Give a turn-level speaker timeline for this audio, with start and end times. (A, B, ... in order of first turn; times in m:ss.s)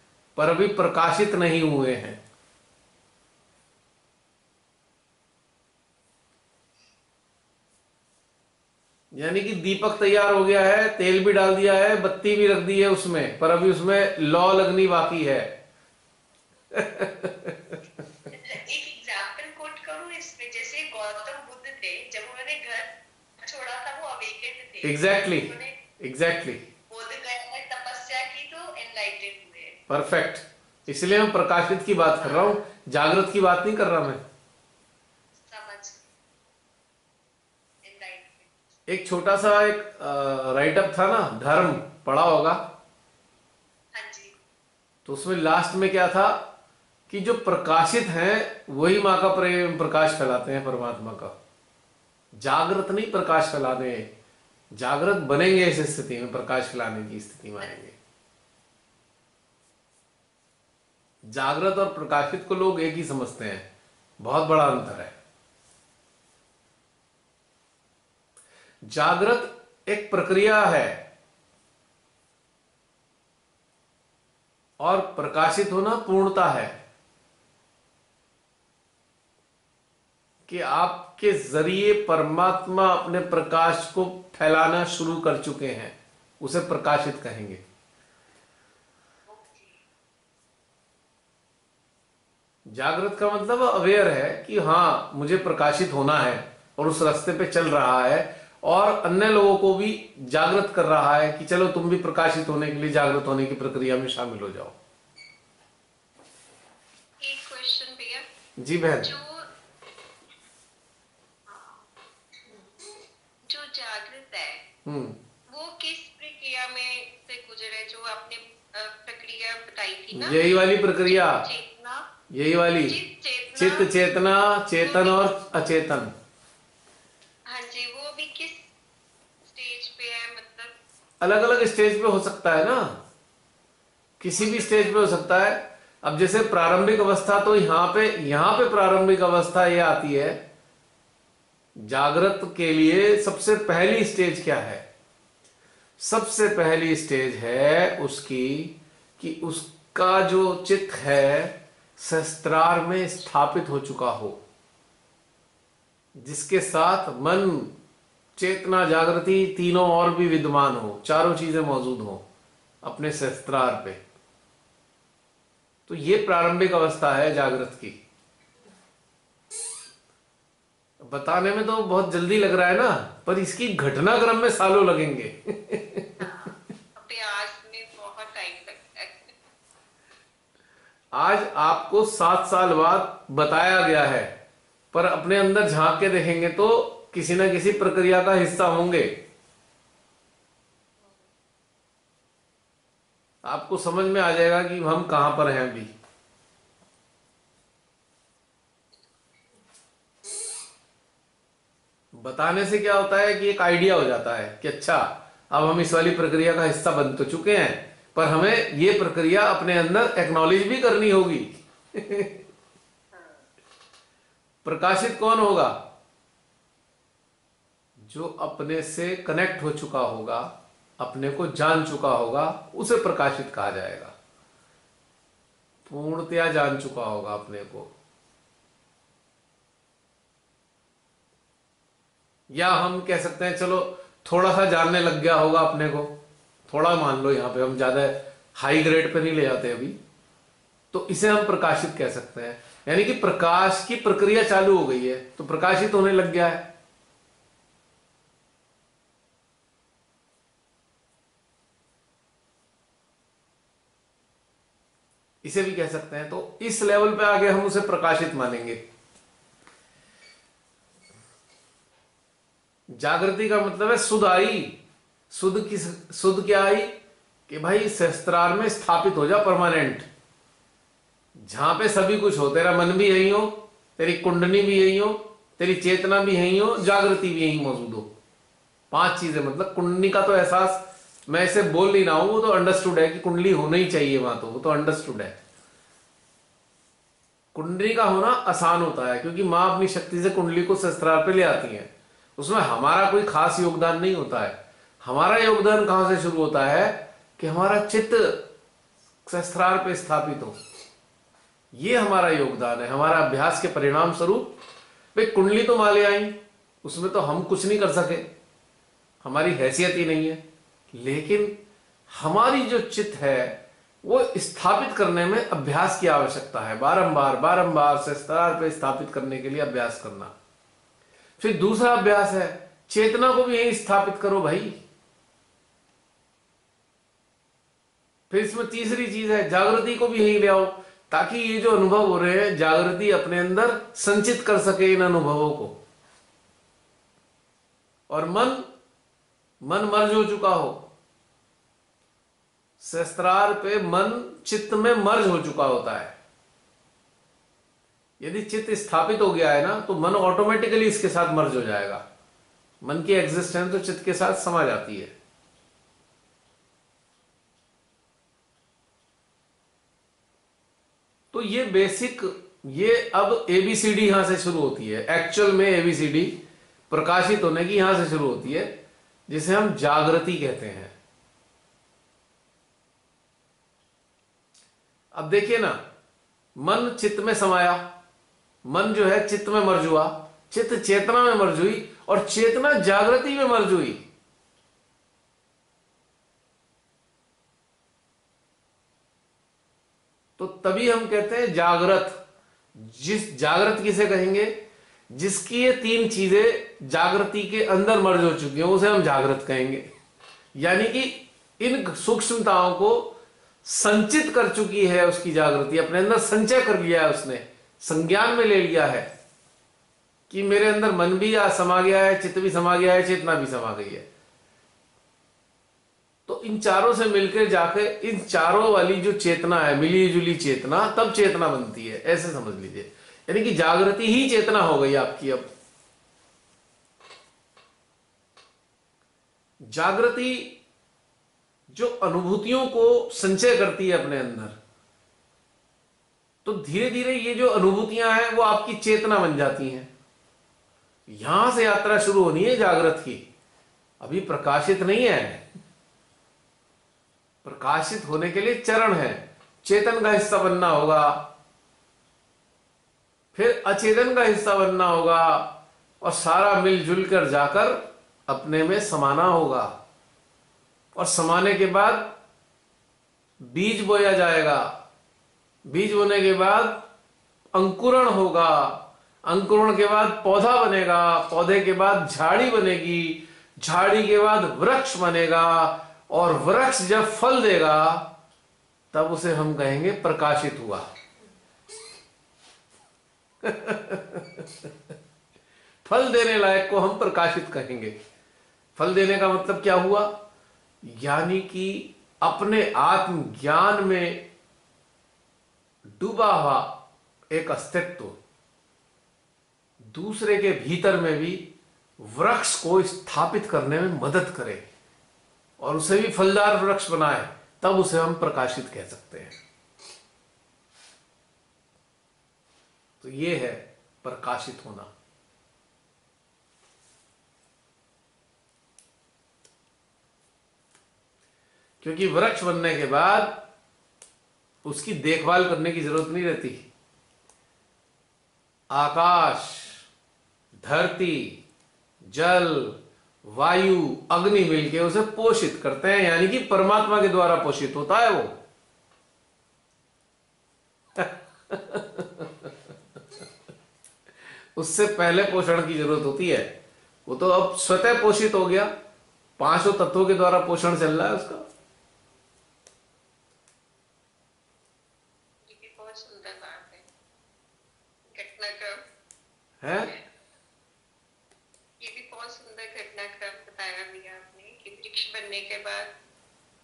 0:00.4-0:02.2 A
0:09.1-0:15.5 A
0:16.7-0:17.8 A
0:18.3-0:25.8 B
0:24.8-0:26.6 A
0:26.9-0:29.8 B
0:29.9-0:34.2 A
0:32.2-0:32.6 B
0:35.4-0:36.1 B
0:37.8-0:38.5 B
0:38.9-0:42.6 A
0:43.9-0:44.3 B
0:45.0-0:46.4 A
0:47.1-0:51.3 A
0:52.4-0:54.1 A
0:54.7-0:58.0 A
1:01.3-1:03.6 A
1:04.2-1:05.1 A
1:08.8-1:11.0 A
1:14.8-1:16.8 A
1:20.5-1:27.6 A
1:29.3-1:29.8 B
1:32.7-1:44.7 A
1:47.2-1:48.2 C
1:48.6-1:49.1 A
1:49.0-1:49.5 C
1:51.5-1:51.8 C
1:53.4-1:54.6 C
1:54.8-1:55.2 A
1:55.5-2:00.4 C
2:00.1-2:01.4 A
2:01.0-2:02.1 C
2:02.3-2:03.0 A
2:02.9-2:04.0 C
2:03.5-2:06.1 A
2:04.8-2:05.3 C
2:07.5-2:08.7 C
2:09.4-2:10.7 C
2:11.2-2:13.0 A
2:14.2-2:20.4 A
2:14.4-2:15.0 C
2:21.8-2:24.8 A
2:26.0-2:34.4 A
2:36.2-2:37.7 A
2:38.4-2:42.2 A
2:42.8-2:44.0 A
2:45.9-2:48.0 A
2:51.0-2:56.2 A
2:57.0-2:59.3 C
3:01.1-3:04.3 A
3:04.9-3:09.1 A
3:13.4-3:15.9 A
3:22.1-3:32.4 A
3:34.6-3:35.8 A
3:38.0-3:44.1 A
3:45.8-3:47.9 A
3:52.5-3:56.1 A
3:56.7-4:00.0 A
4:00.9-4:06.6 A
4:15.4-4:18.8 A
4:22.9-4:24.7 A
4:25.3-4:26.9 A
4:27.5-4:30.0 A
4:31.4-4:38.1 A
4:38.9-4:45.4 A
4:47.5-4:58.4 A
4:59.2-5:00.6 A
5:01.7-5:04.5 A
5:05.1-5:08.3 A
5:09.2-5:10.4 A
5:10.9-5:11.5 A
5:12.1-5:20.3 A
5:21.4-5:24.8 A
5:28.3-5:35.8 A
5:38.1-5:38.7 A
5:39.6-5:40.8 A
5:42.8-5:46.1 A
5:48.2-5:52.0 A
5:52.8-5:55.1 A
6:01.3-6:06.3 A
6:06.9-6:08.7 A
6:09.3-6:10.9 A
6:15.1-6:15.8 A
6:16.6-6:17.8 A
6:18.6-6:24.0 A
6:30.4-6:32.2 A
6:32.7-6:34.5 A
6:35.1-6:39.9 A
6:40.5-6:49.1 A
6:50.3-6:54.0 A
6:56.3-7:05.5 A
7:09.6-7:10.5 A
7:11.7-7:14.6 A
7:16.4-7:19.9 A
7:21.1-7:23.2 A
7:24.0-7:25.4 A
7:27.4-7:31.2 A
7:33.3-7:39.7 A
7:40.9-7:42.1 A
7:43.4-7:44.7 A
7:45.7-7:46.8 A
7:47.5-7:58.1 A
7:58.9-8:00.9 A
8:03.4-8:04.7 A
8:05.8-8:07.9 A
8:08.8-8:10.1 A
8:10.8-8:14.2 A
8:15.9-8:16.7 A
8:17.3-8:18.2 A
8:19.8-8:21.4 A
8:22.0-8:24.6 A
8:25.6-8:29.3 A
8:33.0-8:34.9 A
8:41.8-8:43.4 A
8:44.6-8:46.6 A
8:48.7-8:49.8 A
8:50.6-8:51.4 A
8:52.1-8:58.4 A
9:01.0-9:02.5 A
9:04.6-9:06.5 A
9:07.1-9:08.7 A
9:09.4-9:11.4 A
9:15.4-9:16.8 C
9:18.1-9:18.8 C
9:19.6-9:19.9 A
9:21.8-9:25.9 C